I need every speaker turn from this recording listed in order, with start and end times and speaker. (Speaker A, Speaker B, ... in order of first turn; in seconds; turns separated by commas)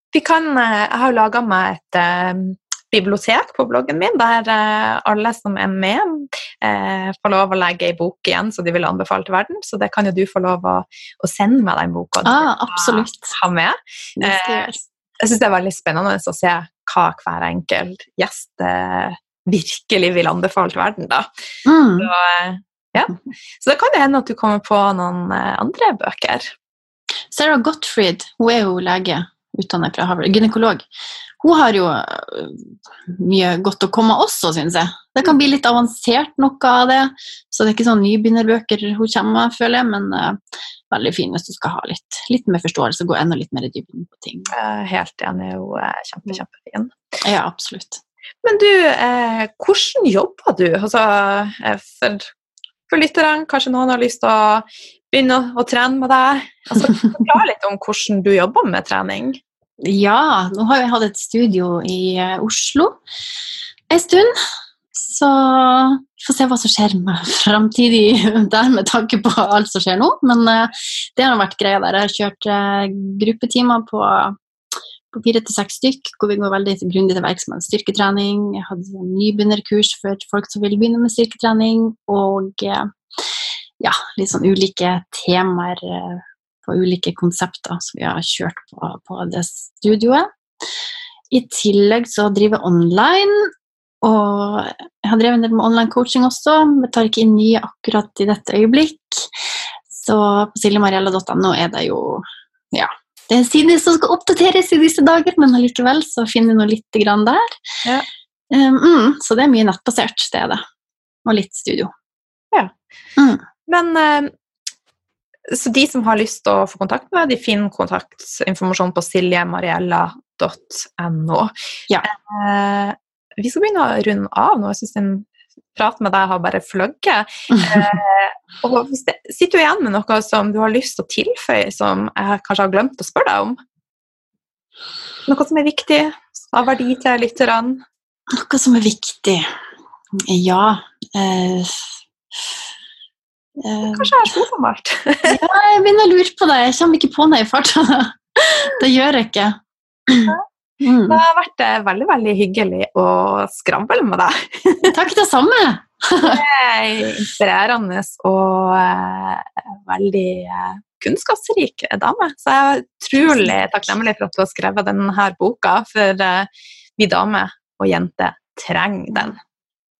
Speaker A: 0.1-21.3, Speaker B: 12.2-13.3, Speaker B: 14.2-14.8, Speaker B: 21.6-22.1, Speaker A: 22.0-26.5, Speaker B: 27.3-30.8, Speaker B: 31.4-44.5, Speaker A: 44.5-46.9, Speaker B: 47.2-48.0, Speaker A: 48.4-52.3, Speaker A: 52.9-59.4, Speaker B: 59.8-63.0, Speaker B: 63.9-64.3, Speaker B: 64.9-74.4, Speaker B: 75.1-82.9, Speaker B: 83.8-90.3, Speaker B: 91.3-93.5, Speaker B: 94.0-107.5, Speaker B: 108.5-110.6, Speaker B: 111.2-111.9, Speaker B: 113.2-113.4, Speaker A: 113.7-114.3, Speaker A: 115.5-121.5, Speaker A: 122.0-133.6, Speaker B: 127.5-127.8, Speaker A: 135.3-137.8, Speaker B: 138.3-139.5, Speaker B: 140.3-142.0, Speaker B: 143.6-144.3, Speaker A: 143.8-145.4, Speaker B: 145.2-151.2, Speaker A: 151.1-154.9, Speaker B: 154.8-156.4, Speaker A: 156.2-169.4, Speaker B: 163.2-163.6